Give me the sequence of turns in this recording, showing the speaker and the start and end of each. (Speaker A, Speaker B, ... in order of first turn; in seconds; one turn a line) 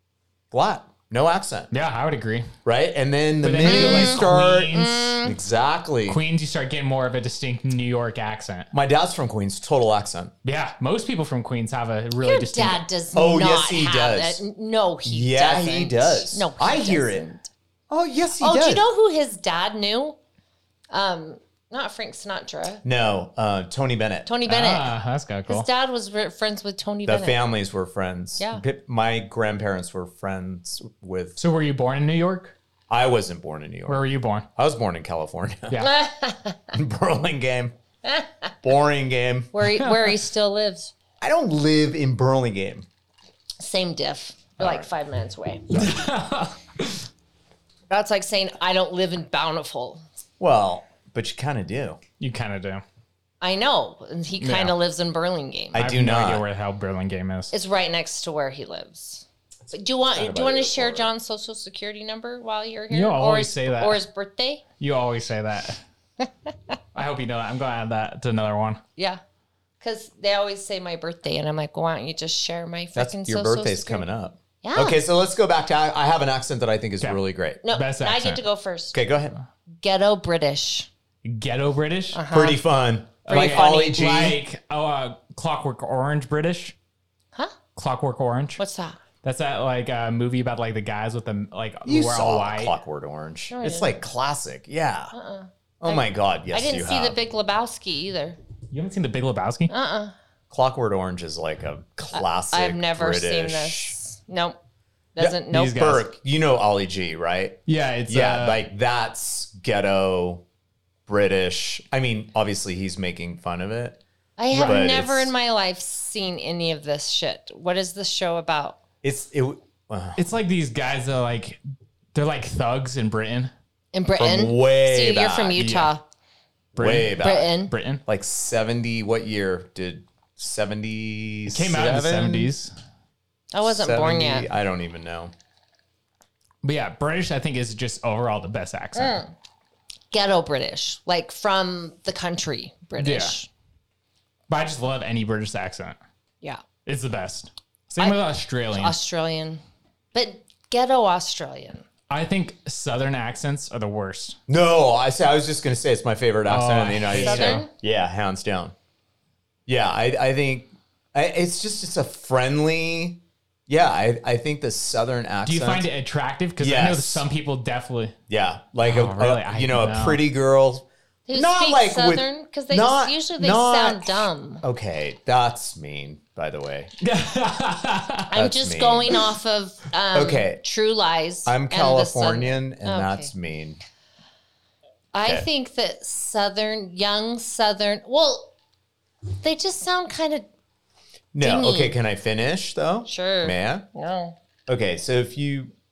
Speaker A: 0.5-1.7
Speaker B: 1.7-2.5
Speaker A: 2.6-6.2
Speaker B: 3.4-5.2
Speaker C: 3.6-5.4
Speaker B: 6.1-8.7
Speaker A: 8.7-10.3
Speaker B: 10.4-12.8
Speaker C: 12.2-17.5
Speaker A: 13.1-14.4
Speaker A: 15.1-17.2
Speaker A: 17.9-18.8
Speaker C: 18.4-20.2
Speaker C: 20.9-22.8
Speaker A: 22.8-24.3
Speaker C: 24.3-24.9
Speaker B: 24.5-25.7
Speaker C: 25.5-27.4
Speaker A: 27.1-31.4
Speaker B: 31.4-32.5
Speaker A: 32.9-34.0
Speaker B: 33.9-34.5
Speaker A: 34.6-35.8
Speaker C: 35.8-36.7
Speaker A: 36.7-37.8
Speaker C: 38.0-38.5
Speaker A: 38.6-39.5
Speaker C: 39.5-40.9
Speaker B: 39.8-40.1
Speaker A: 41.2-42.9
Speaker C: 43.6-45.9
Speaker A: 44.6-44.9
Speaker B: 45.7-47.0
Speaker C: 47.9-50.0
Speaker A: 50.4-52.0
Speaker B: 52.2-52.8
Speaker C: 53.4-55.8
Speaker B: 54.4-54.8
Speaker A: 55.7-56.4
Speaker B: 55.8-57.5
Speaker C: 57.5-64.6
Speaker A: 60.1-61.1
Speaker B: 62.9-64.0
Speaker B: 64.8-65.8
Speaker B: 67.0-68.8
Speaker C: 69.8-74.1
Speaker A: 73.0-77.6
Speaker C: 74.6-75.0
Speaker B: 77.0-78.4
Speaker C: 77.6-79.0
Speaker A: 78.9-79.4
Speaker C: 79.8-80.9
Speaker B: 81.2-82.2
Speaker C: 82.1-82.6
Speaker A: 82.3-84.4
Speaker B: 83.3-86.8
Speaker C: 83.3-84.1
Speaker B: 87.8-88.6
Speaker C: 88.6-89.0
Speaker B: 89.2-92.7
Speaker A: 91.8-95.1
Speaker C: 93.5-94.0
Speaker C: 95.1-98.4
Speaker A: 95.8-97.2
Speaker B: 98.7-99.7
Speaker C: 99.7-100.2
Speaker A: 100.5-104.0
Speaker C: 102.1-104.6
Speaker C: 105.2-105.8
Speaker A: 105.2-110.4
Speaker B: 105.5-106.1
Speaker B: 107.7-108.6
Speaker A: 111.1-114.0
Speaker C: 114.4-118.8
Speaker B: 114.5-114.9
Speaker A: 114.6-115.3
Speaker A: 119.0-120.2
Speaker B: 120.2-121.6
Speaker B: 122.1-123.5
Speaker C: 123.9-126.0
Speaker A: 124.2-125.6
Speaker B: 125.6-125.9
Speaker A: 126.8-127.5
Speaker B: 126.8-128.0
Speaker C: 127.2-127.7
Speaker A: 128.1-132.5
Speaker B: 131.5-132.7
Speaker C: 133.5-134.5
Speaker A: 133.6-135.3
Speaker B: 136.6-139.2
Speaker C: 138.9-139.3
Speaker C: 140.1-143.5
Speaker B: 143.0-143.3
Speaker B: 144.5-146.0
Speaker B: 146.9-148.9
Speaker C: 148.7-149.6
Speaker C: 150.1-151.8
Speaker B: 152.1-154.4
Speaker A: 154.5-158.7
Speaker B: 156.5-157.6
Speaker C: 157.1-157.7
Speaker A: 159.7-165.9
Speaker B: 165.4-168.2
Speaker A: 166.6-167.3
Speaker A: 168.3-176.9
Speaker B: 168.8-170.2
Speaker C: 171.3-174.6
Speaker B: 177.0-178.3
Speaker C: 178.3-183.3
Speaker A: 178.3-179.2
Speaker A: 180.1-180.6
Speaker A: 181.4-183.8
Speaker C: 185.1-188.5
Speaker C: 189.4-190.5
Speaker A: 191.3-193.9
Speaker C: 191.4-192.0
Speaker C: 193.1-194.3
Speaker A: 194.7-195.7